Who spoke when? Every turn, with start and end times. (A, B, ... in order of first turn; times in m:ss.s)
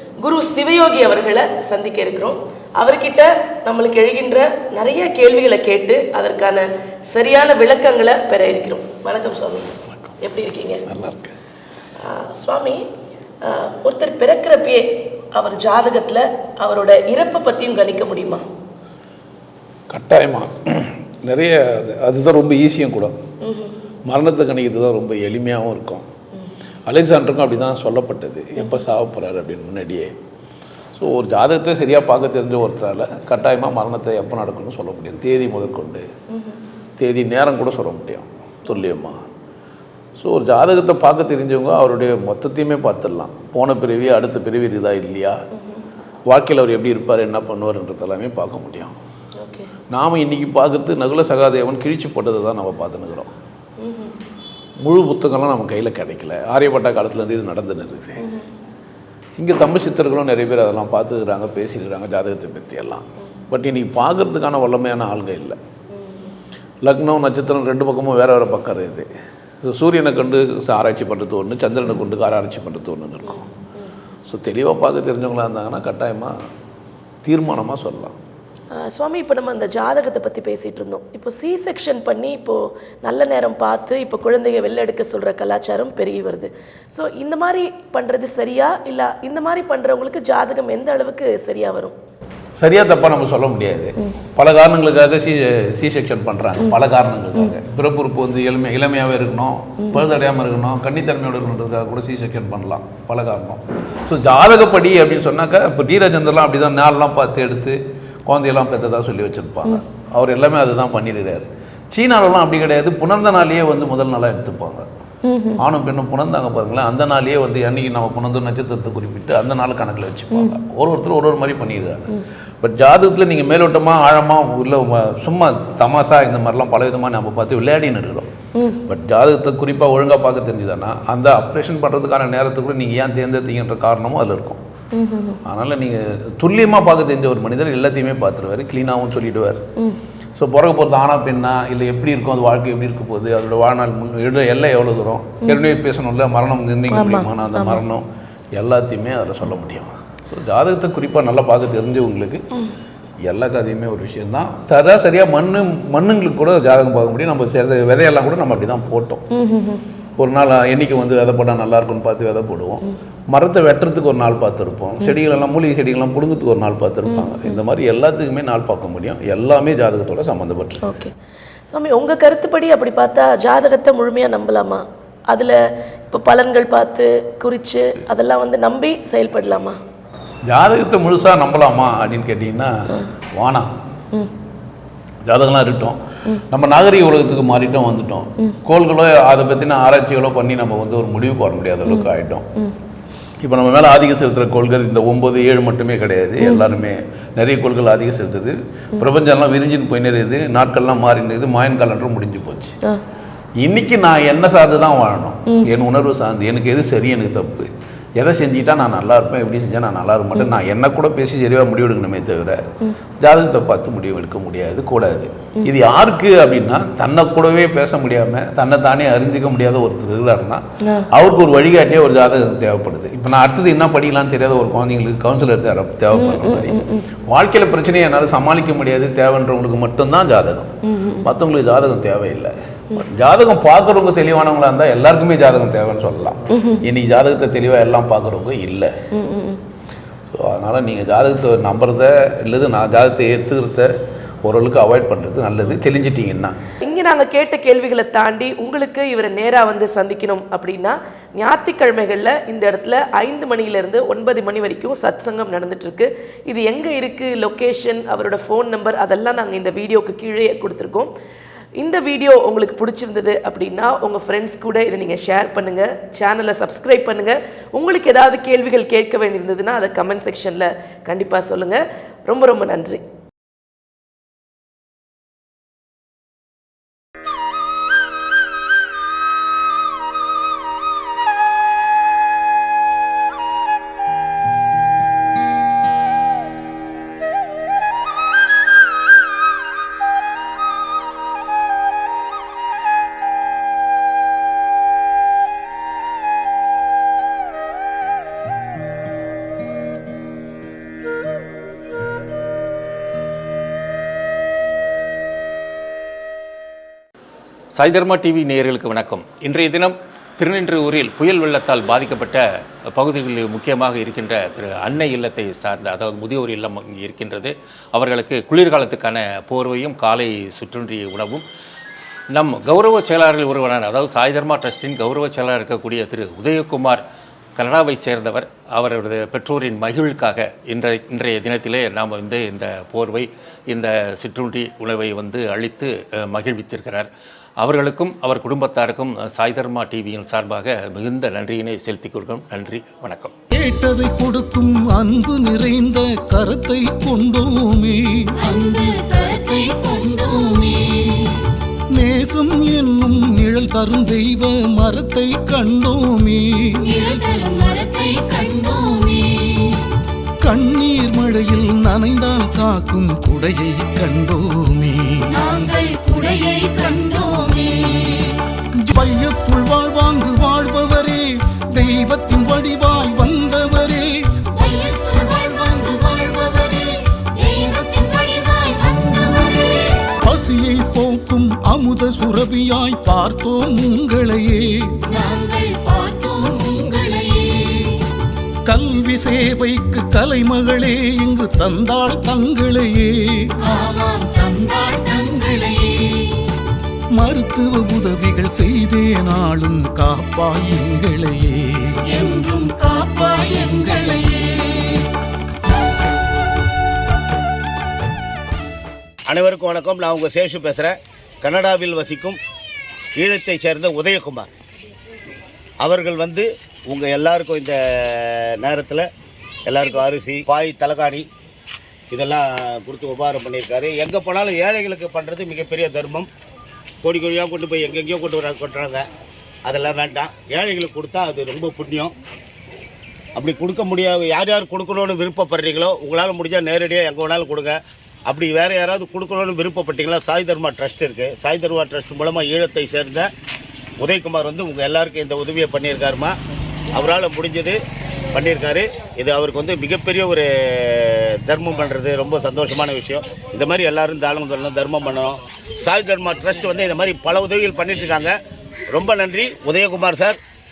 0:00.2-0:10.8 A
0:10.9-0:11.4 B
0:12.0-0:12.8 A
0:13.4-0:18.4 A
0:19.9-0:23.1 B
0:23.4-0:23.7 A
0:24.1-0:26.0 B
0:26.9-0:30.1 B
0:31.0-0:36.1 B
0:37.0-0:39.2 B
0:40.2-0:45.4 B
0:46.3-0:48.9 B
0:49.4-0:49.7 A
0:49.9-0:53.3 B
0:53.8-0:54.1 A
0:54.8-0:58.2 B
0:59.4-1:05.6 B
1:06.8-1:09.1 B
1:09.6-1:13.5 B
1:14.3-1:16.3 B
1:17.2-1:18.2 B
1:18.7-1:31.9 A
1:32.6-1:54.9 B
1:55.3-1:55.6 A
1:55.6-2:08.3 B
2:08.8-2:14.6 B
2:14.9-2:15.4 A
2:15.4-2:19.6 B
2:20.4-2:32.4 B
2:26.9-2:27.8 A
2:33.2-2:39.2 B
2:39.4-2:39.8 A
2:40.2-2:50.8 B
2:50.8-2:51.1 A
2:51.7-2:59.8 A
3:00.5-3:03.7 B
3:05.2-3:06.0 B
3:06.5-3:12.4 B
3:13.4-3:22.8 B
3:23.6-3:32.6 B
3:33.2-3:58.9 B
3:46.2-3:47.0 A
3:59.2-3:59.6 A
4:00.3-4:03.9 B
4:04.4-4:06.5 B
4:06.8-4:21.1 A
4:21.8-4:33.0 A
5:07.8-5:21.4 C
5:22.3-5:27.0 C
5:27.6-5:37.1 C
5:37.6-5:43.4 C
5:43.5-5:48.4 D
5:48.4-5:51.5 E
5:51.9-5:56.8 D
5:56.8-5:59.9 E
6:00.4-6:05.2 D
6:05.3-6:08.4 E
6:08.7-6:14.5 D
6:14.5-6:20.1 E
6:20.2-6:25.0 D
6:25.0-6:28.0 E
6:28.6-6:33.5 D
6:33.6-6:36.4 E
6:37.2-6:42.0 D
6:42.1-6:45.1 E
6:49.3-6:52.4 F
6:53.2-6:54.5 F
6:55.8-6:59.1 F
6:59.7-7:01.3 F
7:02.1-7:06.3 F
7:07.0-7:09.1 F
7:09.6-7:12.1 F
7:13.4-7:23.3 F
7:24.0-7:26.4 F
7:26.9-7:27.8 F
7:28.3-7:38.4 F
7:38.9-7:40.4 F